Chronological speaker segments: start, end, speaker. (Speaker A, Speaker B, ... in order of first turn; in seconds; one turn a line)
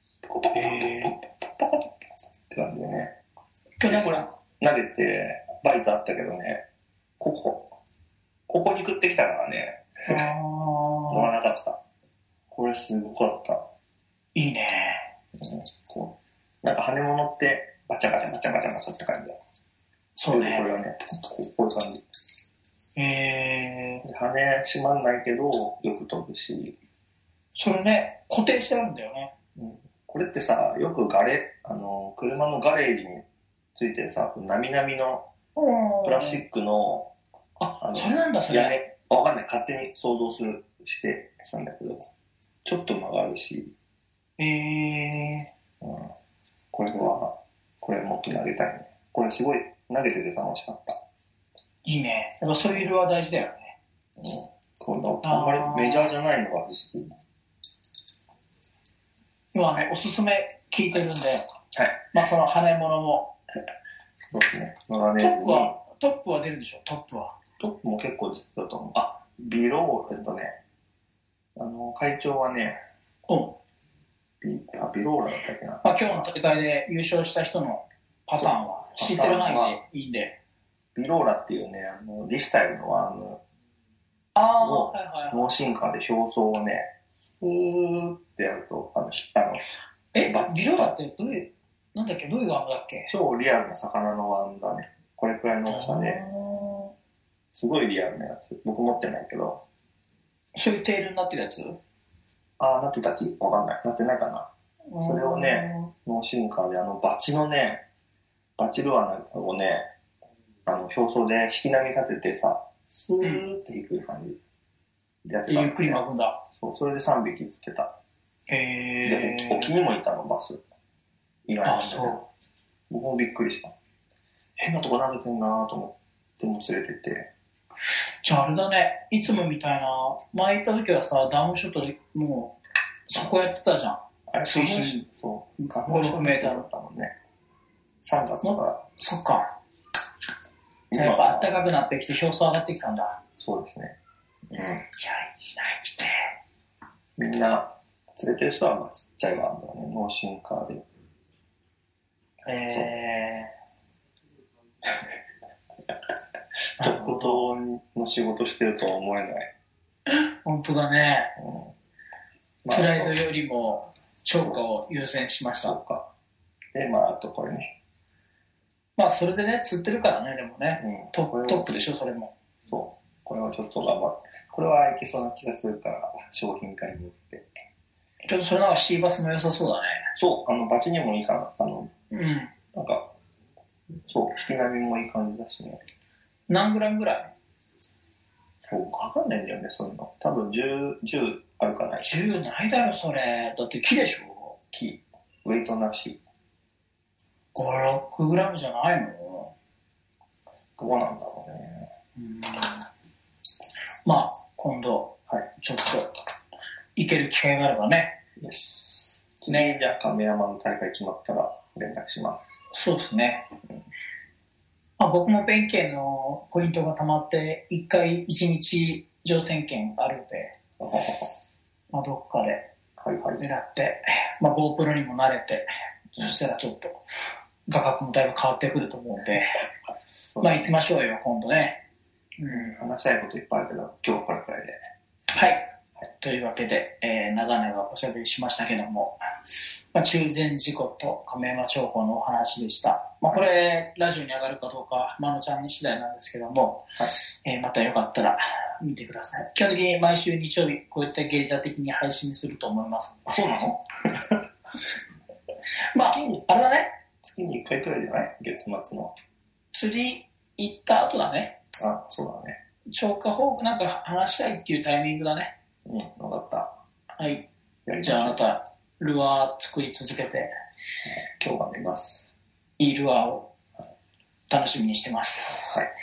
Speaker A: 0.2-2.0
Speaker B: 0.5-1.1
Speaker A: 2.5-3.1
Speaker B: 3.8-4.3
Speaker A: 3.9-6.6
Speaker A: 7.2-7.7
Speaker A: 8.5-10.3
Speaker B: 10.1-11.3
Speaker A: 11.1-11.8
Speaker A: 12.5-13.6
Speaker B: 14.3-15.1
Speaker A: 15.4-19.4
Speaker B: 20.1-20.7
Speaker A: 20.3-22.0
Speaker B: 22.9-24.0
Speaker A: 24.0-26.8
Speaker B: 27.5-29.3
Speaker A: 29.6-33.2
Speaker A: 33.7-35.3
Speaker B: 35.5-36.4
Speaker A: 36.0-37.1
Speaker B: 37.6-38.8
Speaker A: 37.8-42.0
Speaker A: 42.6-43.7
Speaker B: 44.4-45.5
Speaker A: 45.8-46.1
Speaker A: 46.7-51.0
Speaker B: 51.8-53.7
Speaker A: 54.2-57.1
Speaker B: 55.2-56.1
Speaker B: 59.5-61.4
Speaker A: 61.7-62.0
Speaker B: 62.1-63.3
Speaker A: 64.3-65.8
Speaker B: 65.2-67.4
Speaker A: 67.6-70.5
Speaker A: 71.5-72.8
Speaker B: 73.3-73.6
Speaker A: 74.4-76.3
Speaker B: 75.8-80.3
Speaker A: 78.3-79.8
Speaker A: 80.9-83.4
Speaker B: 84.3-85.5
Speaker A: 84.6-89.6
Speaker B: 90.1-93.1
Speaker A: 90.2-90.9
Speaker A: 93.1-96.2
Speaker B: 95.7-96.9
Speaker A: 97.5-99.6
Speaker B: 100.5-101.8
Speaker A: 102.6-104.5
Speaker B: 104.9-105.9
Speaker A: 105.0-107.8
Speaker A: 108.6-109.9
Speaker A: 110.7-114.4
Speaker A: 115.2-116.0
Speaker B: 115.5-116.4
Speaker A: 116.6-117.9
Speaker B: 118.5-119.7
Speaker A: 119.0-120.6
Speaker A: 121.5-122.2
Speaker B: 121.6-122.2
Speaker A: 122.9-123.7
Speaker A: 124.6-127.3
Speaker B: 128.2-132.6
Speaker B: 133.1-135.0
Speaker A: 134.3-137.1
Speaker B: 135.8-136.7
Speaker A: 138.0-138.8
Speaker B: 138.4-139.5
Speaker A: 140.9-141.6
Speaker B: 140.9-143.2
Speaker A: 143.4-143.9
Speaker A: 144.5-144.8
Speaker B: 145.0-146.3
Speaker A: 147.2-150.8
Speaker B: 152.4-153.5
Speaker B: 156.8-157.4
Speaker A: 156.8-159.5
Speaker B: 160.1-161.3
Speaker A: 161.4-161.7
Speaker A: 162.6-163.2
Speaker B: 162.7-165.8
Speaker A: 165.6-166.1
Speaker A: 166.7-167.8
Speaker B: 169.0-172.3
Speaker A: 170.8-171.7
Speaker A: 172.7-177.5
Speaker B: 178.2-180.1
Speaker A: 180.2-181.9
Speaker B: 182.1-182.5
Speaker A: 182.7-183.1
Speaker A: 184.1-185.8
Speaker B: 186.5-187.3
Speaker A: 188.7-192.2
Speaker B: 192.0-194.6
Speaker A: 194.7-196.2
Speaker B: 197.5-199.5
Speaker A: 200.8-201.9
Speaker B: 202.2-202.8
Speaker B: 204.0-206.2
Speaker B: 206.9-208.2
Speaker A: 208.4-212.5
Speaker B: 209.5-209.7
Speaker B: 212.7-213.4
Speaker B: 215.0-220.5
Speaker A: 220.8-221.3
Speaker B: 221.9-222.7
Speaker A: 223.0-223.4
Speaker B: 223.4-227.0
Speaker B: 227.7-229.6
Speaker A: 230.3-230.7
Speaker B: 230.4-231.8
Speaker B: 232.4-232.7
Speaker A: 232.5-234.8
Speaker B: 235.3-253.2
Speaker A: 253.2-254.4
Speaker B: 255.9-256.9
Speaker A: 256.0-256.5
Speaker A: 257.2-259.1
Speaker B: 259.7-261.6
Speaker A: 261.8-262.6
Speaker B: 262.9-265.5
Speaker A: 265.9-266.7
Speaker B: 267.2-267.4
Speaker A: 267.9-268.4
Speaker B: 268.0-270.5
Speaker A: 271.0-272.3
Speaker B: 272.8-273.5
Speaker B: 274.5-275.8
Speaker A: 275.5-275.9